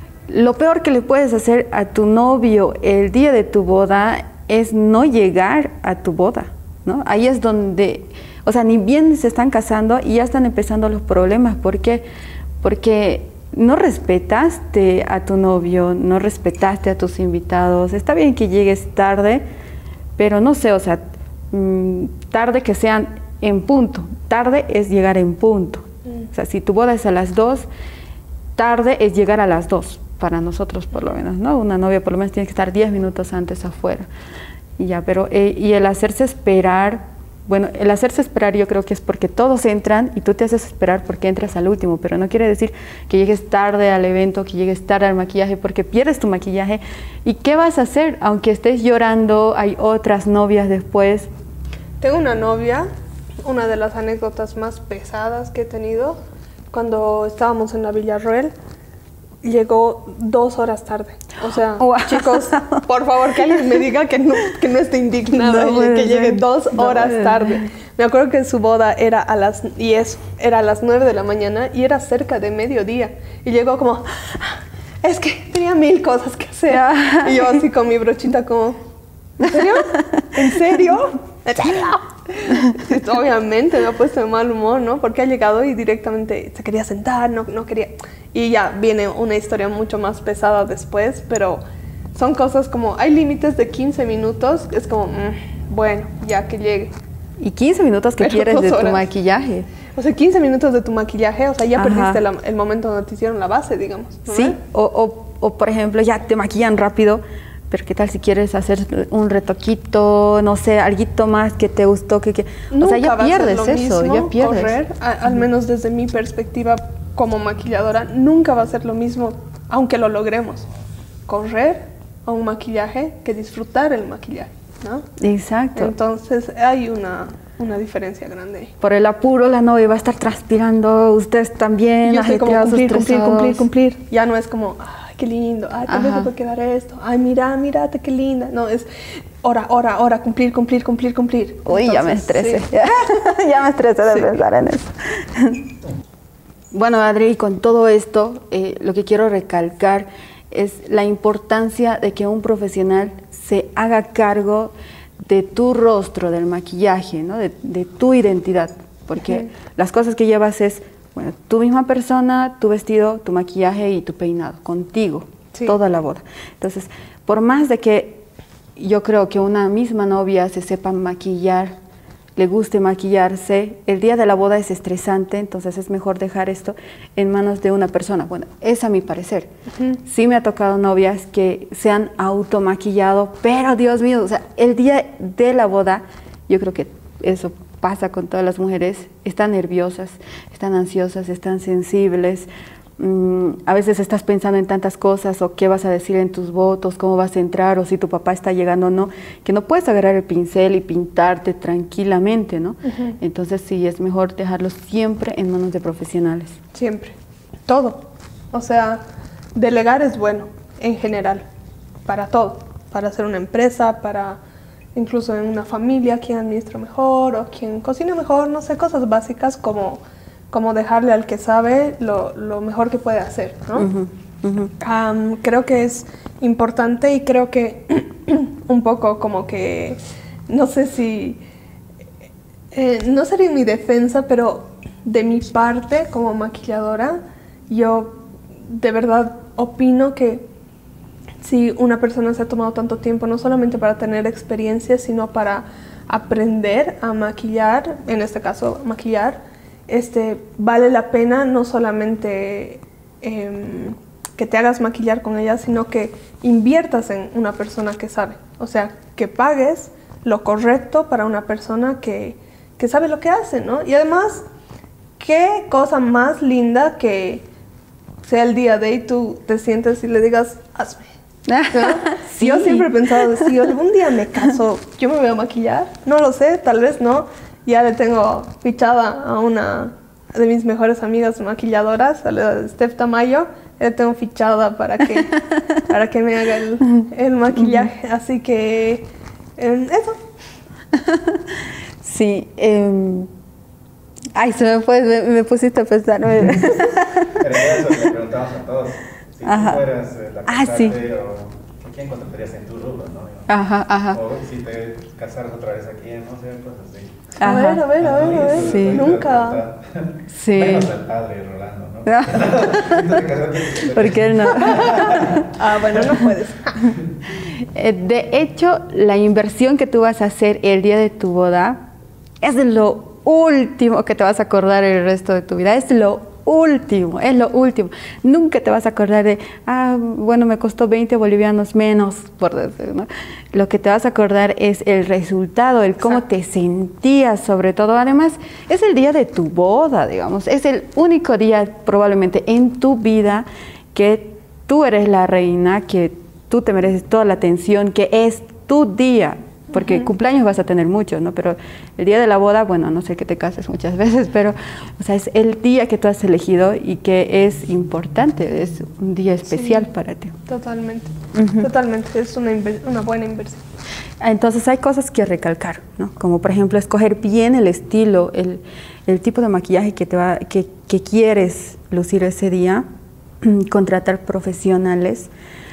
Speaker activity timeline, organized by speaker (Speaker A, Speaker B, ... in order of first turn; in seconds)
Speaker A: 0.3-12.0, 12.6-19.4, 20.2-27.7, 28.6-34.1, 34.8-51.3, 61.8-62.8, 65.3-67.6, 76.7-77.6, 80.0-80.3, 97.4-99.7, 101.8-102.2, 104.3-114.8, 125.2-125.9, 128.8-133.7, 135.9-136.3, 141.7-145.7, 146.7-168.2, 168.8-171.8, 172.3-206.6, 223.8-224.7, 271.5-273.5, 286.9-287.9, 290.9-293.3, 294.3-297.8, 299.4-299.8, 300.4-301.0, 303.5-304.2, 307.4-307.9, 308.6-309.0, 310.3-310.9, 312.1-313.2, 313.9-315.5, 317.4-321.9, 322.4-360.4, 361.3-361.7, 364.2-372.8, 373.4-375.3
Speaker B: 52.0-52.9, 53.4-56.2, 56.7-58.5, 59.4-78.8, 79.4-91.6, 92.1-96.9, 98.2-99.0, 99.9-104.6, 112.7-120.7, 121.3-125.0, 125.8-128.7, 132.0-143.3, 144.1-144.3, 159.2-159.5, 202.8-203.1, 206.7-209.0, 209.5-211.4, 212.1-214.4, 214.9-223.9, 224.8-231.4, 232.7-240.5, 241.4-264.4, 265.2-267.5, 268.2-271.1, 271.7-290.2, 307.4-309.6, 314.8-316.9, 349.7-350.1, 359.5-359.9, 360.4-363.6
Speaker C: 297.3-303.5, 304.1-315.5